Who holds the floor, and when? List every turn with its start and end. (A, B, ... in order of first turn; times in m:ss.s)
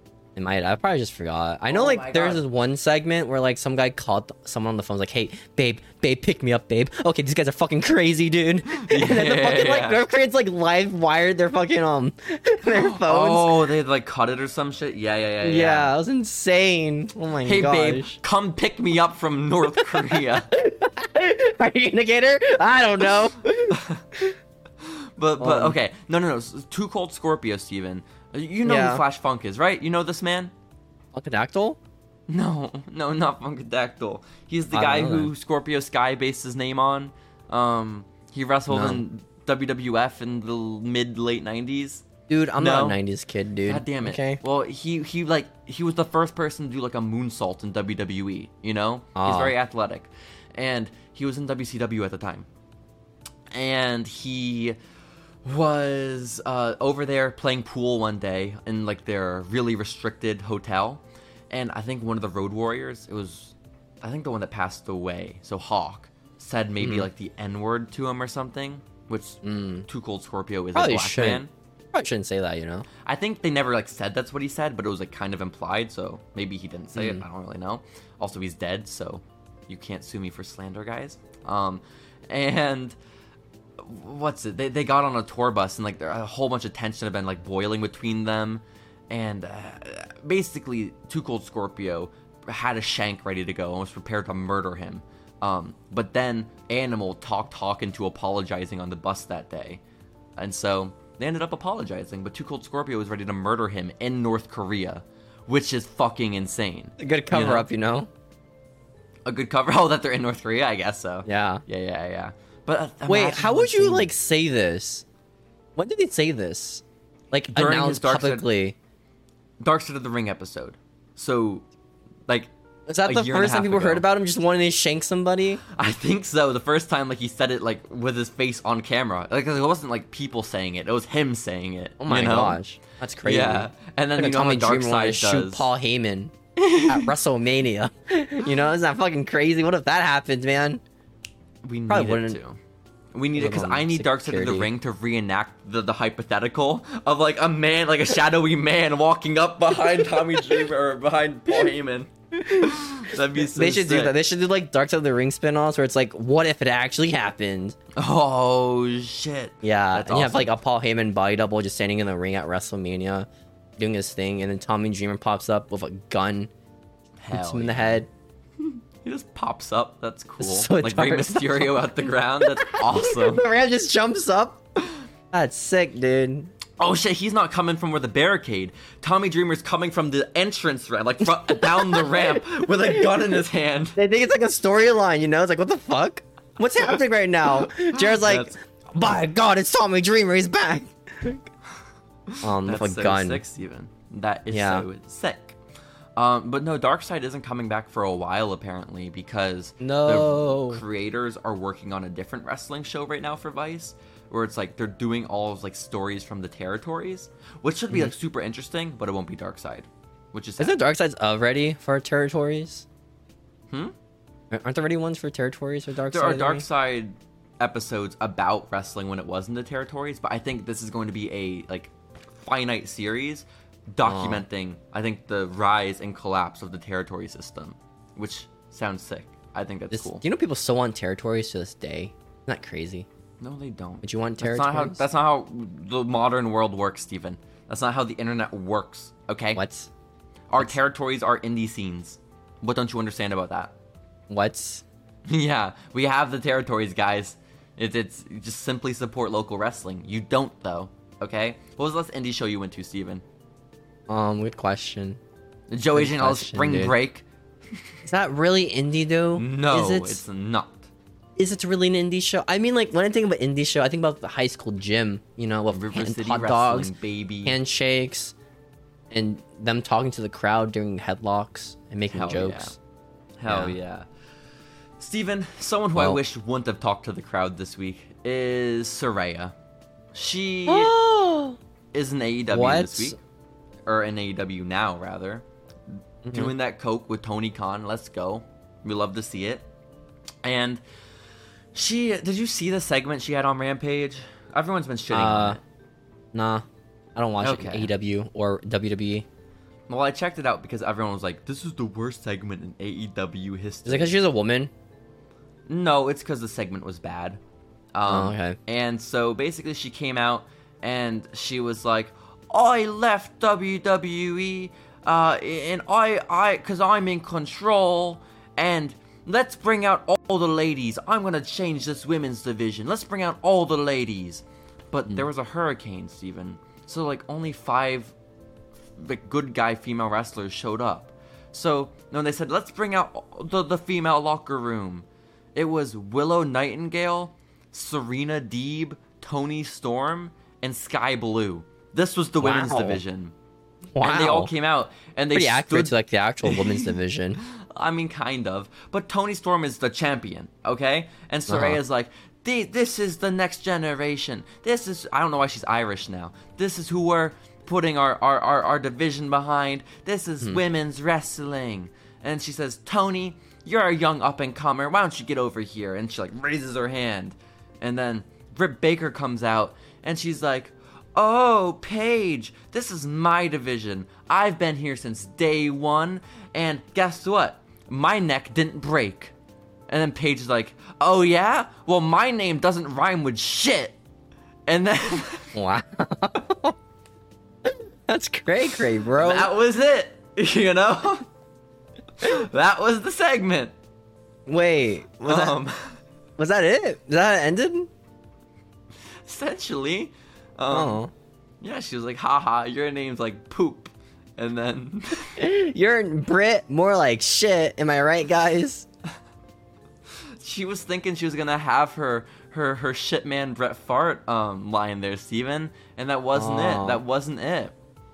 0:00.4-0:13.7 A
0:01.7-0:02.4 B
0:08.7-0:10.0 B
0:12.7-0:15.9 B
0:15.4-0:18.2 A
0:17.4-0:20.5 B
0:19.7-0:24.4 A
0:23.7-0:24.0 B
0:24.8-0:30.5 B
0:25.4-0:25.8 A
0:28.6-0:29.0 A
0:31.2-0:31.8 A
0:32.3-0:42.1 B
0:34.7-0:35.3 A
0:38.7-0:39.0 A
0:42.3-0:44.4 A
0:42.6-0:43.0 B
0:43.6-0:52.5 B
0:49.2-0:49.5 A
0:53.5-0:54.8 B
0:55.4-1:11.5 B
1:06.8-1:07.1 A
1:09.4-1:09.9 A
1:10.8-1:12.9 A
1:13.0-1:23.0 B
1:17.0-1:17.2 A
1:23.8-1:39.8 B
1:40.4-1:47.7 B
1:47.0-1:48.1 A
1:49.3-1:54.1 B
1:51.3-1:51.6 A
1:53.1-1:55.0 A
1:55.8-1:58.8 A
1:57.5-1:58.5 B
1:59.6-2:01.7 B
2:02.9-2:05.6 A
2:03.0-2:04.0 B
2:05.7-2:12.6 B
2:12.0-2:16.3 A
2:13.2-2:15.7 B
2:16.6-2:17.1 B
2:16.8-2:20.8 A
2:21.6-2:22.6 B
2:21.9-2:22.4 A
2:23.1-2:34.2 B
2:23.4-2:24.7 A
2:30.1-2:30.6 A
2:32.4-2:32.8 A
2:33.4-2:37.8 A
2:38.0-2:40.5 B
2:39.6-2:43.3 A
2:43.8-2:46.5 A
2:47.2-2:48.0 B
2:47.3-2:48.1 A
2:48.6-2:53.5 B
2:50.4-2:54.6 A
2:55.3-2:56.5 A
2:56.8-3:04.0 B
3:01.2-3:03.4 A
3:04.0-3:11.4 A
3:07.7-3:08.6 B
3:12.3-3:15.6 B
3:12.4-3:13.4 A
3:14.5-3:14.9 A
3:16.2-3:30.8 B
3:19.8-3:20.8 A
3:30.6-3:32.9 A
3:34.5-3:36.6 A
3:36.1-3:50.2 B
3:44.1-3:44.4 A
3:49.9-3:53.1 A
3:53.4-3:59.6 B
3:54.0-3:55.0 A
3:59.6-3:59.9 A
4:00.5-4:03.8 B
4:04.3-4:04.8 A
4:05.3-4:13.2 B
4:14.1-4:15.2 A
4:15.7-4:17.3 B
4:15.9-4:17.0 A
4:18.0-4:20.2 A
4:19.4-4:20.9 B
4:21.4-4:26.9 A
4:25.7-4:27.6 B
4:27.4-4:28.3 A
4:29.1-4:32.8 A
4:32.1-4:32.8 B
4:33.4-4:34.1 B
4:33.5-4:33.8 A
4:35.0-4:39.5 B
4:40.1-4:41.0 B
4:40.7-4:41.6 A
4:41.9-4:43.2 B
4:42.5-4:43.2 A
4:43.9-4:49.7 B
4:46.3-4:46.5 A
4:50.4-4:50.8 B
4:51.8-4:55.6 B
4:55.1-4:55.6 A
4:56.3-4:56.6 A
4:57.2-4:59.3 A
4:57.4-4:57.9 B
4:59.9-5:04.2 B
5:03.9-5:04.7 A
5:05.7-5:07.4 B
5:07.9-5:28.1 B
5:08.1-5:08.6 A
5:29.0-5:43.3 B
5:42.4-5:43.0 A
5:43.9-5:44.5 A
5:44.0-6:19.3 B
5:45.3-5:47.4 A
5:51.5-5:51.8 A
6:19.9-6:24.0 B
6:24.7-6:25.6 B
6:25.6-6:26.8 A
6:27.6-6:29.5 A
6:29.2-6:31.3 B
6:32.2-6:33.7 B
6:34.5-6:35.6 A
6:35.2-6:35.9 B
6:36.4-6:37.9 A
6:39.2-6:41.0 B
6:40.7-6:41.1 A
6:41.6-6:45.4 B
6:45.4-6:48.9 A
6:50.4-6:57.8 B
6:56.4-6:57.0 A